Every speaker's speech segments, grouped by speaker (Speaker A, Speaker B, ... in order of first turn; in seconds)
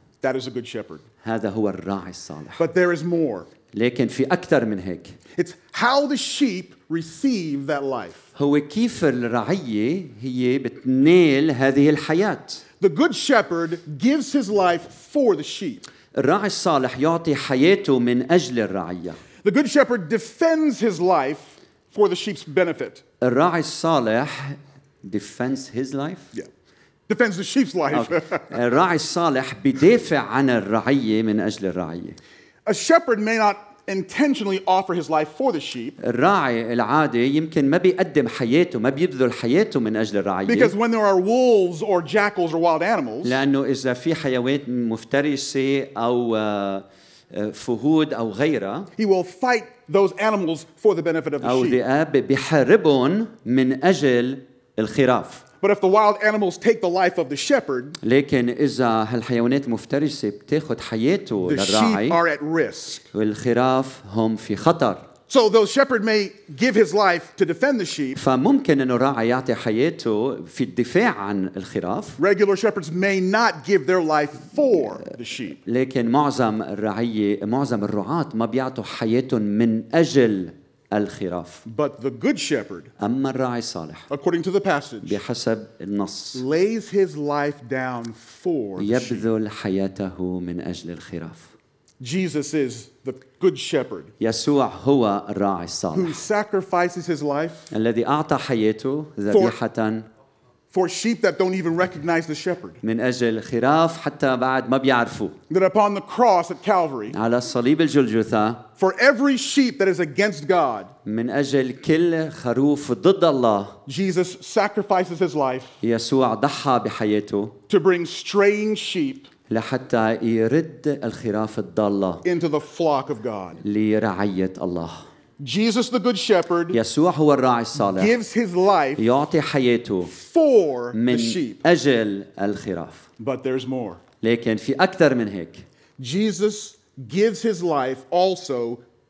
Speaker A: 0.2-1.0, 2.6-3.5, 5.3-8.3, 12.8-15.8, 19.4-23.0, 27.1-28.4, 32.6-36.0, 40.5-43.4, 49.0-51.8, 55.6-58.0, 61.4-63.1, 65.3-68.2, 72.2-75.6, 81.6-82.9, 84.1-85.2, 86.3-89.2, 92.0-94.1, 95.9-97.7, 99.3-99.6, 100.7-102.8, 105.5-107.2, 108.8-110.9, 113.9-115.8, 117.7-119.3, 122.2-123.6, 125.4-126.8, 127.8-129.1, 130.1-131.6, 133.2-134.0, 136.0-138.8
Speaker B: 1.2-2.6, 3.7-5.2, 8.3-12.6, 16.1-19.2, 23.2-26.3, 27.9-32.2, 36.0-40.7, 43.2-48.9, 51.4-55.4, 58.0-62.2, 63.1-65.0, 68.1-72.2, 75.0-81.6, 83.0-84.1, 85.0-86.4, 88.8-91.5, 94.2-96.2, 97.7-100.0, 102.8-105.4, 107.1-108.7, 111.0-113.8, 115.8-117.5, 119.5-122.2, 123.6-125.0, 126.7-128.2, 129.0-130.1, 130.9-133.1, 134.2-135.6